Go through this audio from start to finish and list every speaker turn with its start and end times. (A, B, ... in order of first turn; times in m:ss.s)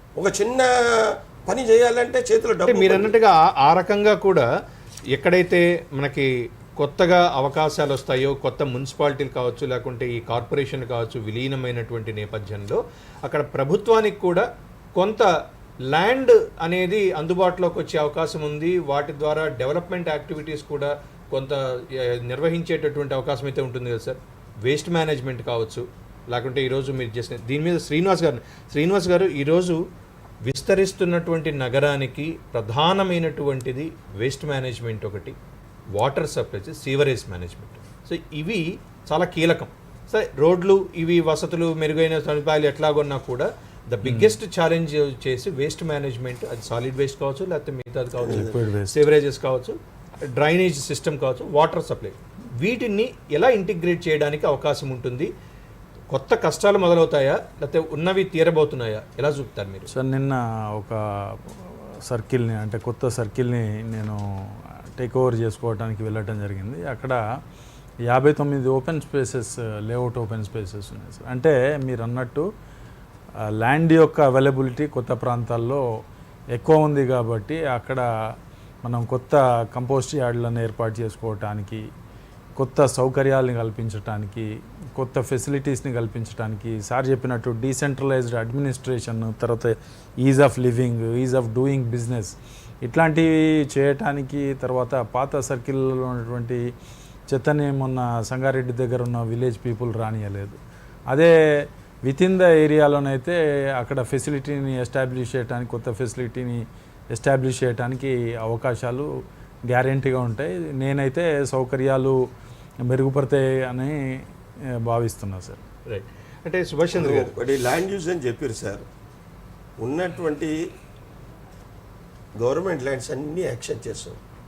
0:00.2-0:03.2 A
0:02.6-0:04.5 B
0:05.1-0:15.3 B
0:15.9-0:29.8 B
0:30.4-0:35.4 B
0:35.9-0:55.3 B
0:44.0-0:44.4 C
0:48.2-0:48.9 C
0:56.1-0:59.9 B
0:59.9-1:04.2 C
1:05.0-1:07.2 C
1:08.1-1:12.4 C
1:13.6-1:15.8 C
1:16.5-1:18.0 C
1:18.8-1:21.8 C
1:22.6-1:36.6 C
1:37.3-1:40.6 C
1:42.0-1:49.1 C
1:49.7-1:52.2 C
1:52.8-1:54.0 C
1:54.8-1:55.6 C
1:55.9-1:57.3 B
1:57.0-1:58.8 A
1:59.8-2:00.6 A
2:02.4-2:04.2 A